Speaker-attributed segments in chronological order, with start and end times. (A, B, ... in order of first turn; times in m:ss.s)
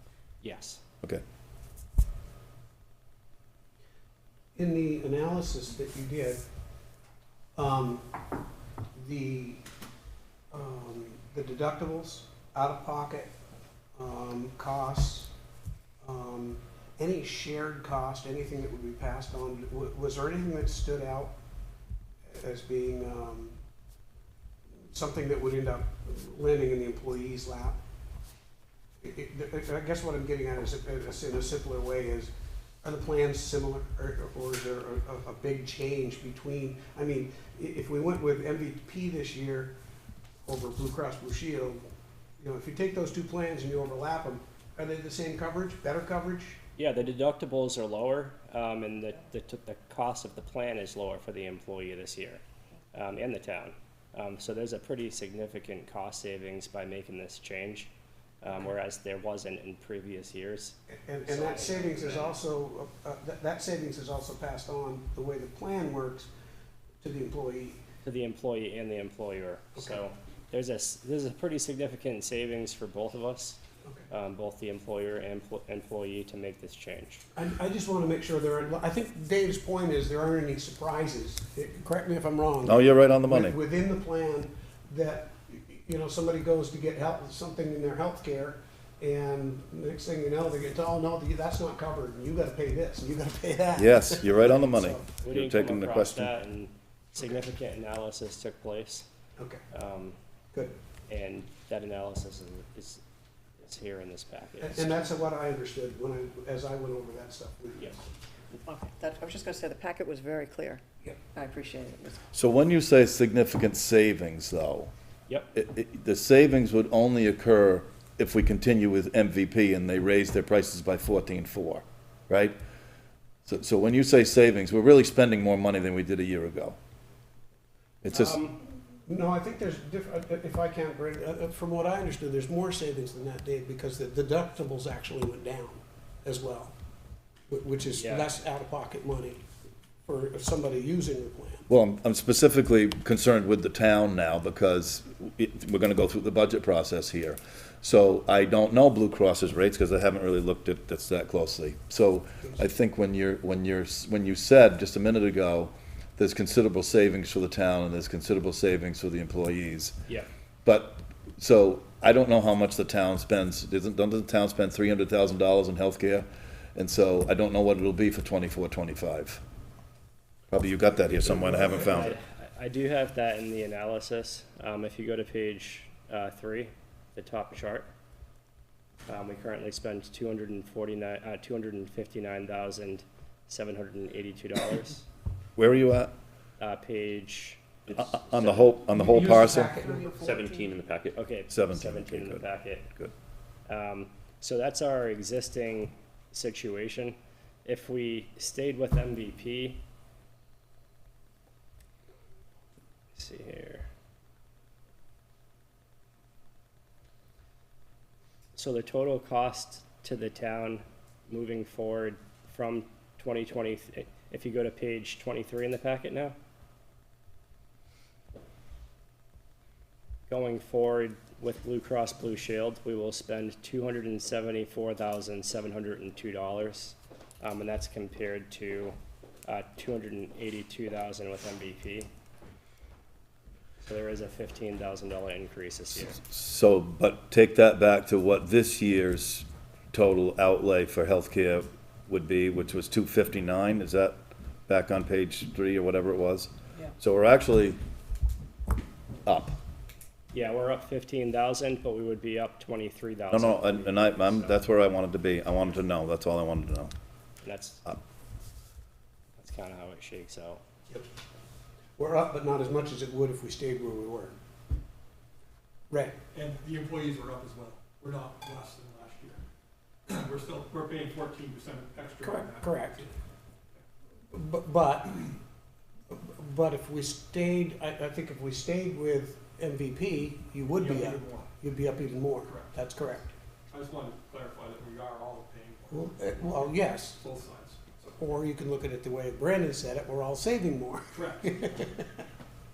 0:00.4-0:00.8 A
0:04.5-0:06.4 B
0:07.6-0:08.3 B
0:08.9-0:09.6 B
0:10.5-0:13.3 B
0:14.0-0:15.3 B
0:16.0-0:21.3 B
0:22.3-0:23.6 B
0:24.9-0:27.8 B
0:29.0-0:39.7 B
0:40.4-0:41.8 B
0:42.4-0:46.6 B
0:46.8-0:57.9 A
0:58.4-1:02.4 A
1:00.9-1:06.3 B
1:07.0-1:07.8 B
1:08.0-1:13.6 A
1:14.1-1:17.2 A
1:17.3-1:35.2 B
1:22.6-1:23.6 C
1:33.8-1:36.3 C
1:35.2-1:39.1 A
1:39.4-1:39.6 B
1:39.7-1:40.2 A
1:41.1-1:43.0 A
1:43.6-1:45.0 A
1:44.6-1:48.1 B
1:48.6-1:50.8 D
1:51.3-1:52.2 D
1:52.3-1:54.9 C
1:55.5-2:02.6 C
2:03.4-2:06.8 C
2:08.0-2:08.4 C
2:08.1-2:08.6 A
2:09.0-2:16.7 B
2:17.5-2:19.4 B
2:18.0-2:18.3 A
2:20.0-2:21.7 B
2:21.7-2:40.0 C
2:40.6-2:49.4 C
2:50.5-2:52.1 C
2:51.4-2:57.9 A
2:59.1-3:05.0 A
3:05.6-3:06.1 C
3:06.6-3:08.7 A
3:07.9-3:09.9 C
3:09.1-3:10.2 B
3:09.2-3:11.2 E
3:11.1-3:12.9 A
3:11.5-3:13.1 C
3:13.7-3:19.8 A
3:23.1-3:23.9 A
3:28.5-3:36.4 A
3:40.3-3:52.1 A
3:53.8-3:56.2 A
3:56.0-4:04.2 C
4:04.7-4:07.8 C
4:09.2-4:09.6 C
4:10.3-4:14.6 A
4:13.3-4:16.9 C
4:17.4-4:17.8 A
4:19.4-4:20.6 A
4:22.0-4:24.3 B
4:25.9-4:26.2 B
4:26.3-4:29.4 F
4:30.1-4:33.1 F
4:32.2-4:33.0 B
4:34.3-4:35.4 B
4:36.1-4:43.3 B
4:40.7-4:41.5 F
4:42.4-4:42.7 F
4:43.7-4:48.2 F
4:45.9-4:47.2 B
4:48.2-4:52.2 B
4:51.1-4:51.9 F